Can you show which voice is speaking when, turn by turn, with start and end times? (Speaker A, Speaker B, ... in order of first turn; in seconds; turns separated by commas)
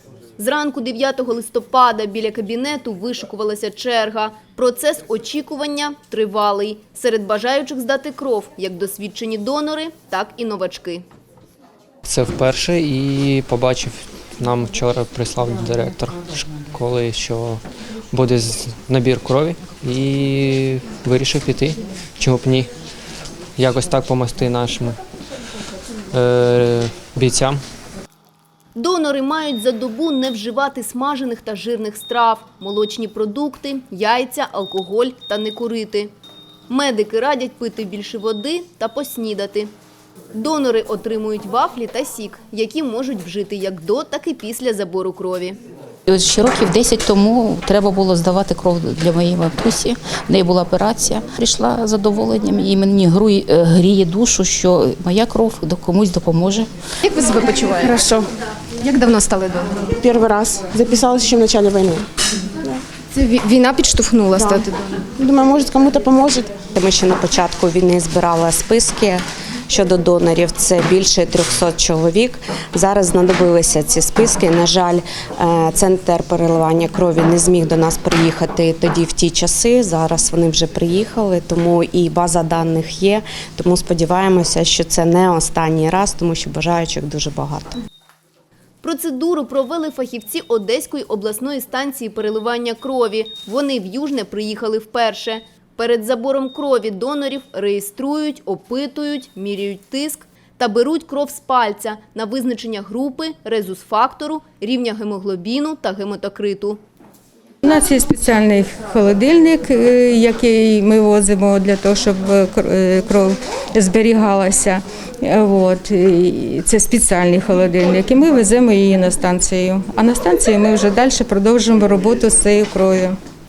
Speaker A: 0.4-11.0, Speaker B: 12.0-22.7, Speaker B: 23.6-25.0, Speaker B: 26.1-27.6, Speaker A: 28.8-36.1, Speaker A: 36.7-39.7, Speaker A: 40.3-45.6, Speaker C: 46.1-56.7, Speaker D: 57.0-58.2, Speaker E: 57.7-58.3, Speaker D: 58.8-59.9, Speaker E: 59.8-62.8, Speaker D: 63.1-65.0, Speaker E: 64.3-66.6, Speaker F: 66.7-87.8, Speaker A: 88.8-106.8, Speaker G: 107.6-123.2